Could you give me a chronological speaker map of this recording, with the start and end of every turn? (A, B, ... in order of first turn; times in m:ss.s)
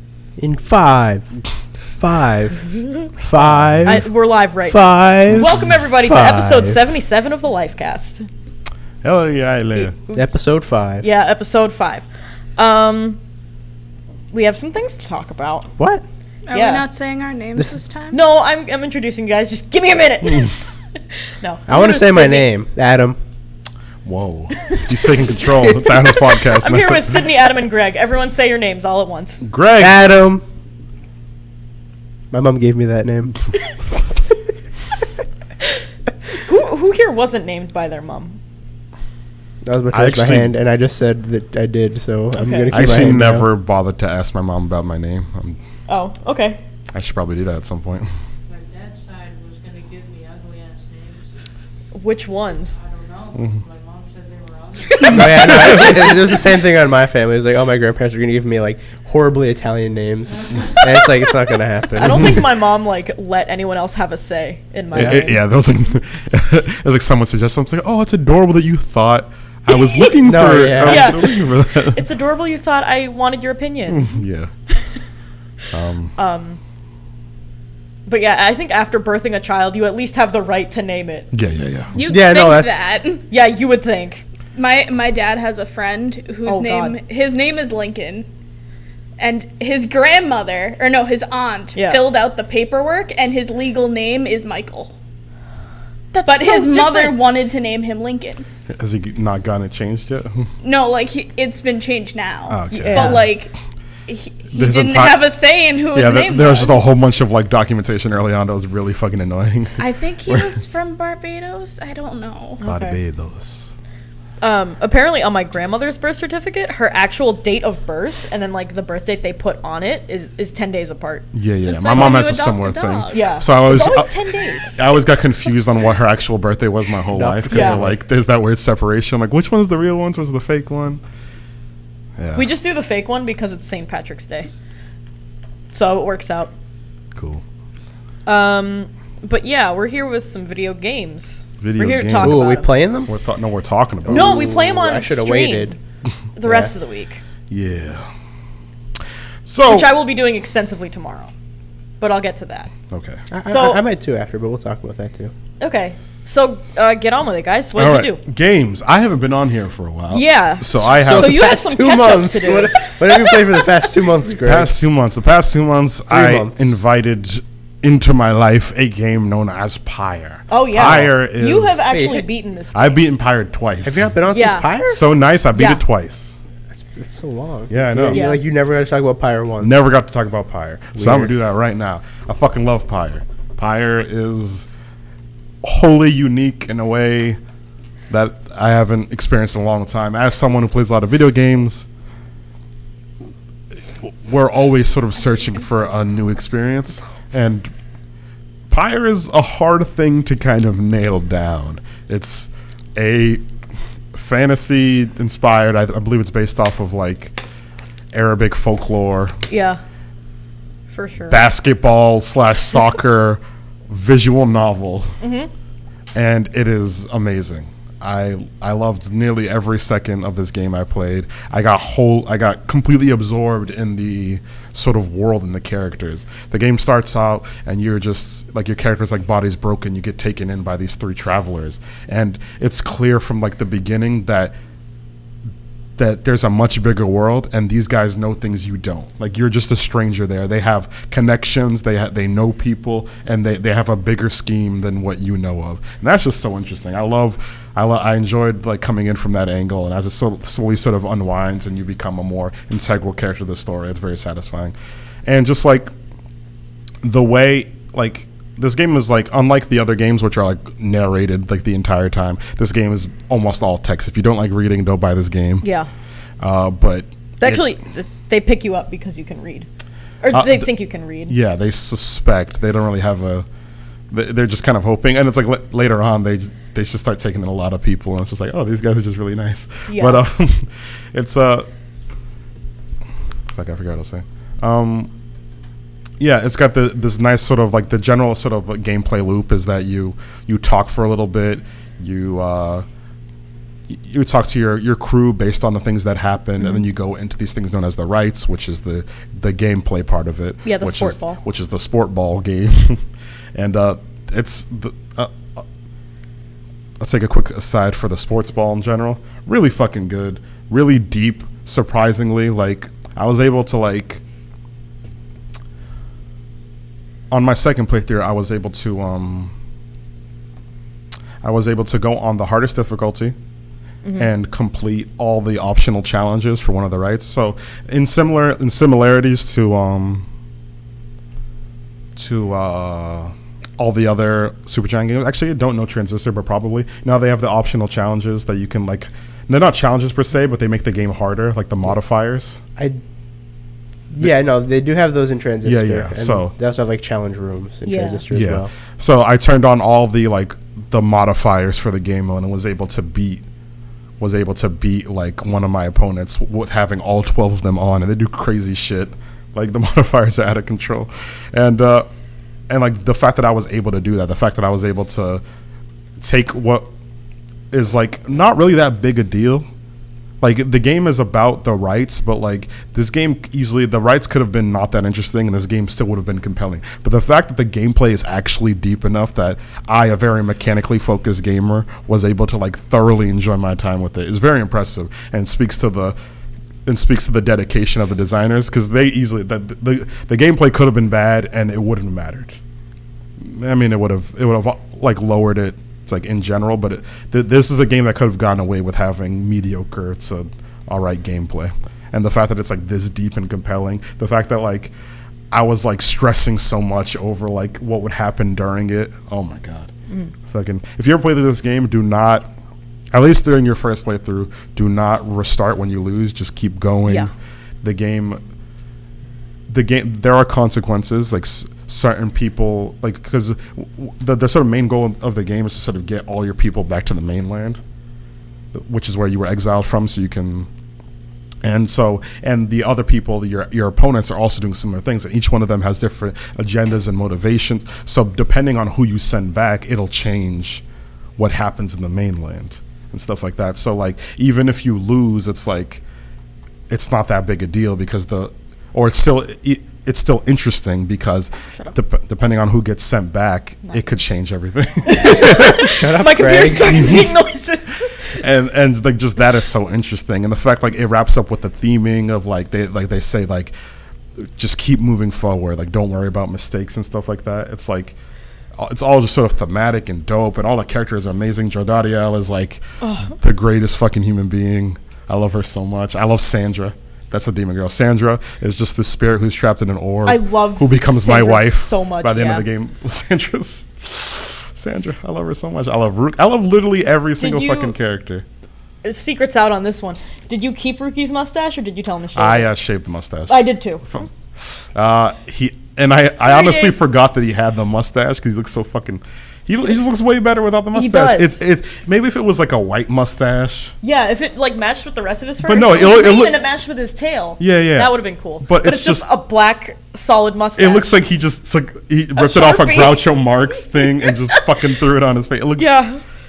0:00.4-0:01.3 A
0:02.0-0:04.1 A
0:03.4-0:04.0 B
0:03.8-0:08.3 C
0:04.6-0:06.8 A
0:09.0-0:10.0 B
0:09.8-0:10.2 C
0:10.1-0:11.1 A
0:11.0-0:12.0 C
0:12.6-0:13.2 C
0:14.3-0:15.7 C
0:15.8-0:16.0 A
0:16.5-0:18.2 D
0:16.5-0:16.9 C
0:18.1-0:20.6 C
0:21.4-0:22.4 C
0:21.7-0:23.2 A
0:24.0-0:27.2 B
0:25.9-0:29.4 C
0:29.4-0:30.0 B
0:29.8-0:30.4 A
0:32.3-0:33.4 A
0:36.3-0:38.4 C
0:39.6-0:43.5 A
0:39.9-0:40.6 B
0:42.4-0:42.7 C
0:42.7-0:45.6 B
0:45.9-0:46.6 C
0:46.9-0:48.1 B
0:48.5-0:51.4 E
0:51.9-0:52.8 C
0:52.7-0:56.5 E
0:55.1-1:02.4 A
1:00.4-1:00.8 E
1:02.0-1:05.4 C
1:04.9-1:05.2 A
1:05.0-1:12.0 B
1:10.2-1:11.2 A
1:10.8-1:14.1 C
1:13.9-1:14.5 B
1:14.7-1:15.0 C
1:15.7-1:16.2 B
1:16.2-1:16.6 C
1:18.1-1:21.3 C
1:21.3-1:22.0 B
1:22.0-1:23.2 D
1:22.1-1:22.8 A
1:23.3-1:24.2 C
1:24.6-1:28.3 D
1:26.5-1:27.0 C
1:29.2-1:34.9 D
1:31.8-1:32.0 C
1:36.1-1:37.2 C
1:36.3-1:38.4 D
1:38.7-1:40.5 B
1:40.6-1:43.5 D
1:42.5-1:43.4 B
1:42.7-1:43.4 C
1:44.1-1:46.9 D
1:44.5-1:45.2 B
1:45.9-1:50.6 B
1:49.8-1:52.6 D
1:52.6-1:53.0 C
1:52.6-1:53.7 B
1:54.4-2:01.3 C
2:01.3-2:04.1 B
2:01.6-2:03.2 D
2:01.9-2:02.2 C
2:03.1-2:04.8 C
2:04.7-2:11.0 B
2:07.2-2:08.0 A
2:07.5-2:07.8 C
2:12.2-2:12.5 B
2:12.4-2:14.5 C
2:15.7-2:16.5 C
2:17.2-2:17.4 B
2:18.3-2:22.7 C
2:21.6-2:24.5 B
2:22.2-2:23.1 A
2:24.1-2:25.8 A
2:24.1-2:25.8 C
2:26.4-2:27.2 C
2:26.4-2:26.7 A
2:27.5-2:28.1 B
2:29.5-2:29.9 B
2:29.7-2:31.3 C
2:32.0-2:32.7 C
2:32.9-2:33.2 B
2:33.3-2:35.3 A
2:33.5-2:33.8 C
2:35.6-2:38.2 C
2:37.8-2:41.5 B
2:40.1-2:43.6 C
2:41.0-2:44.8 A
2:44.4-2:51.9 B
2:46.1-2:46.6 A
2:50.5-2:53.0 C
2:51.8-2:52.3 A
2:52.7-2:54.1 B
2:53.8-2:55.0 A
2:54.3-2:55.0 C
2:54.9-2:56.4 B
2:55.5-2:55.8 C
2:56.8-2:59.7 A
2:57.7-2:58.4 B
2:58.1-2:58.4 C
2:59.6-3:04.7 B
3:01.0-3:01.3 A
3:05.6-3:07.4 B
3:08.1-3:11.9 B
3:13.9-3:17.7 B
3:18.7-3:23.4 B
3:24.1-3:27.4 B
3:28.1-3:29.4 B
3:29.5-3:29.8 C
3:30.9-3:31.4 C
3:31.3-3:35.2 B
3:35.2-3:35.5 C
3:36.2-3:54.5 B
3:56.0-4:15.9 B
4:17.0-4:25.7 B
4:25.6-4:25.9 C
4:26.4-4:27.7 B
4:27.4-4:29.7 C
4:30.2-4:31.3 C
4:30.3-4:30.7 B
4:31.3-4:33.5 B
4:34.1-4:41.7 B
4:39.9-4:40.2 C
4:43.5-4:45.1 B
4:46.2-4:52.8 B
4:53.9-5:03.0 B
5:00.6-5:01.4 C
5:03.6-5:05.6 B
5:07.0-5:14.2 B
5:17.3-5:19.5 B
5:21.4-5:23.4 B
5:24.2-5:30.3 B
5:32.2-5:42.6 B
5:44.1-5:48.7 A
5:45.6-5:46.5 B
5:47.9-5:48.2 C
5:48.3-5:53.4 B
5:54.2-6:02.1 B
6:02.7-6:05.4 B
6:06.2-6:06.9 B
6:07.7-6:09.7 B
6:10.4-6:26.2 B
6:26.9-6:32.6 B
6:33.4-6:44.9 B
6:45.5-6:49.9 B
6:50.5-6:52.5 B
6:53.1-6:58.4 B
6:59.7-7:07.8 B
7:08.7-7:10.7 B
7:11.6-7:20.8 B
7:21.4-7:26.0 B
7:26.9-7:35.9 B
7:35.1-7:38.3 C
7:35.5-7:37.2 A
7:36.9-7:37.3 B
7:38.4-7:43.8 B
7:44.4-7:48.2 B
7:48.8-8:08.4 B
7:53.0-7:53.4 C
8:00.3-8:02.6 C
8:07.4-8:07.9 C
8:09.0-8:12.7 C
8:12.4-8:24.0 B
8:13.5-8:14.0 C
8:16.4-8:17.0 C
8:20.9-8:21.6 C
8:24.0-8:31.1 C
8:25.6-8:26.6 B
8:27.6-8:29.3 B
8:30.8-8:36.0 B
8:32.4-8:34.6 C
8:35.8-8:36.2 C